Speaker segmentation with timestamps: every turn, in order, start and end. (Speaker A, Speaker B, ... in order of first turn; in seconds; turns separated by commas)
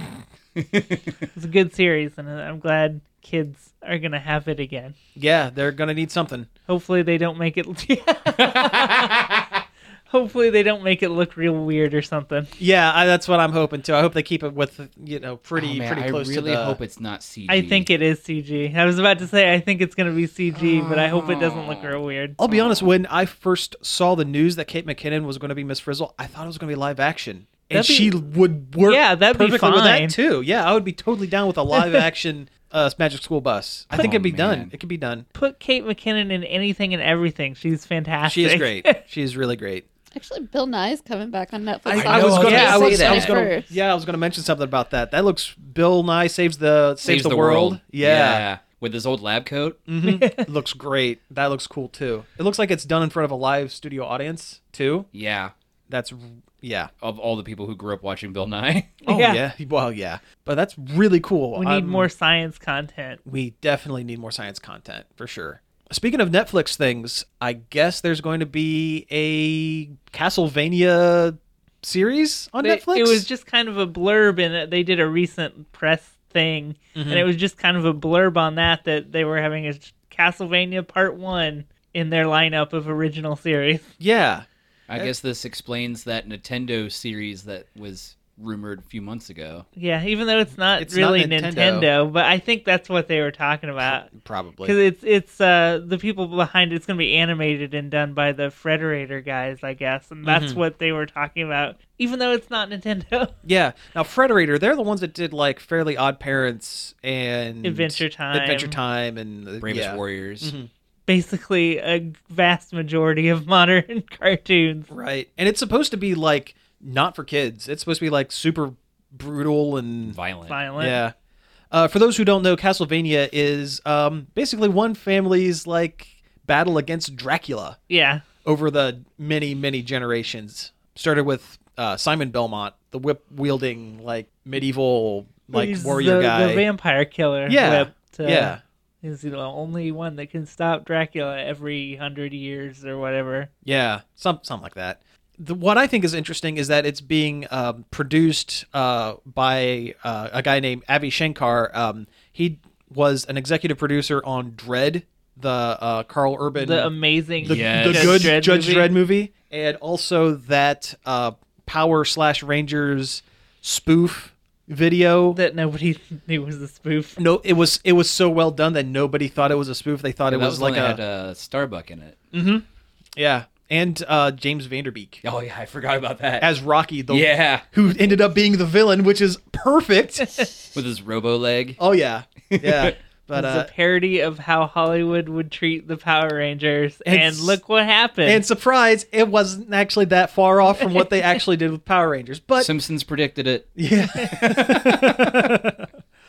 Speaker A: 0.6-1.3, Speaker B: 1.4-5.0, Speaker C: 5.2-6.5, Speaker B: 6.7-9.2, Speaker A: 8.4-9.4, Speaker B: 10.1-12.5, Speaker C: 12.6-16.8, Speaker A: 15.6-17.9, Speaker B: 17.5-22.4, Speaker A: 20.5-22.9, Speaker C: 22.4-35.3, Speaker B: 27.7-28.1, Speaker B: 28.9-30.2, Speaker B: 31.7-32.0, Speaker A: 33.9-34.7, Speaker B: 35.4-39.0, Speaker C: 38.3-39.9, Speaker D: 40.1-43.8, Speaker C: 41.9-48.5, Speaker A: 41.9-43.5, Speaker A: 47.0-49.8, Speaker C: 49.9-55.1, Speaker B: 50.0-50.5, Speaker A: 55.1-55.5, Speaker C: 55.9-56.9, Speaker A: 57.0-59.0, Speaker B: 59.0-59.4, Speaker C: 59.1-62.1, Speaker B: 61.6-63.2, Speaker C: 63.2-73.3, Speaker B: 72.6-83.9, Speaker C: 77.0-77.3, Speaker C: 84.0-85.1, Speaker A: 84.9-89.7, Speaker B: 89.8-94.1, Speaker C: 90.8-91.9, Speaker C: 93.8-94.8, Speaker B: 94.6-103.3, Speaker C: 100.2-100.6, Speaker C: 103.4-110.7, Speaker B: 107.6-108.8, Speaker A: 109.6-110.5, Speaker B: 111.1-114.9, Speaker C: 114.9-120.2, Speaker A: 120.1-120.6, Speaker B: 120.5-121.0, Speaker C: 120.8-121.1, Speaker C: 121.7-127.8, Speaker B: 127.9-128.2, Speaker C: 128.4-136.7, Speaker B: 135.5-143.5, Speaker C: 137.5-138.6, Speaker C: 143.6-165.4, Speaker B: 156.6-158.9, Speaker A: 157.4-158.3, Speaker B: 165.3-167.2, Speaker C: 167.2-171.0, Speaker A: 170.3-172.2, Speaker C: 172.3-172.6, Speaker C: 173.2-175.2, Speaker A: 175.2-176.5, Speaker C: 176.4-180.5, Speaker A: 177.1-177.6, Speaker A: 180.7-181.8, Speaker C: 181.8-183.7, Speaker A: 182.5-182.9, Speaker B: 183.3-188.4, Speaker C: 187.1-187.6, Speaker C: 188.2-192.7, Speaker A: 192.6-195.5, Speaker C: 193.8-195.9